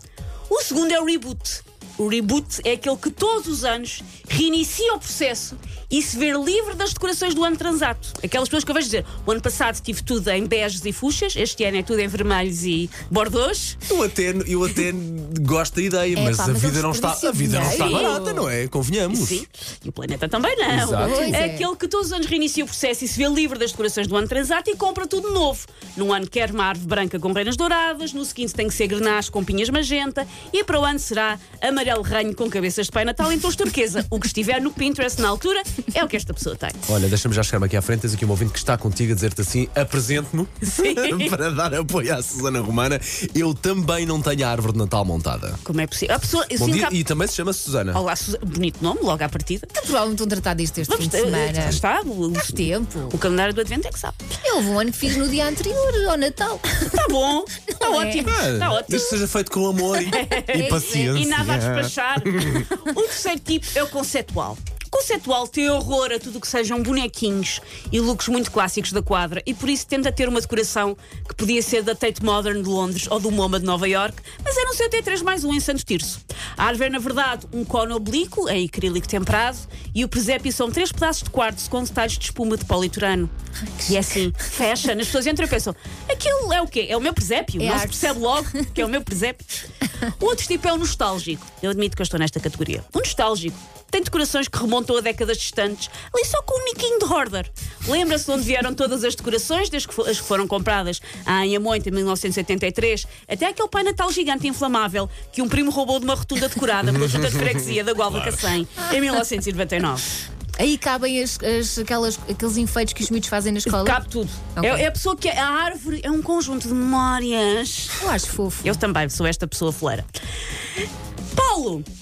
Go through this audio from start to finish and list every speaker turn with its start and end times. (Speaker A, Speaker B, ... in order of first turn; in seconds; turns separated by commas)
Speaker A: 0.5-13.8, Speaker B: 13.9-19.4, Speaker C: 16.1-18.5, Speaker A: 17.6-18.2, Speaker A: 19.1-36.8, Speaker B: 20.7-21.4, Speaker C: 21.0-21.7, Speaker B: 36.9-45.6, Speaker A: 40.6-41.3, Speaker A: 45.6-47.0, Speaker B: 46.5-48.0, Speaker A: 47.9-49.7, Speaker C: 49.7-51.8, Speaker A: 50.9-54.3, Speaker C: 52.5-53.2, Speaker C: 54.4-57.1, Speaker A: 56.9-59.2, Speaker C: 57.7-58.3, Speaker B: 58.2-62.7, Speaker A: 60.0-83.3, Speaker C: 60.5-61.1, Speaker A: 83.8-89.5, Speaker C: 87.6-88.7, Speaker A: 90.0-110.0, Speaker B: 106.9-108.4, Speaker C: 110.6-114.0, Speaker A: 113.7-118.0, Speaker C: 114.6-114.8, Speaker C: 118.0-118.8, Speaker A: 118.6-120.1, Speaker A: 121.3-121.9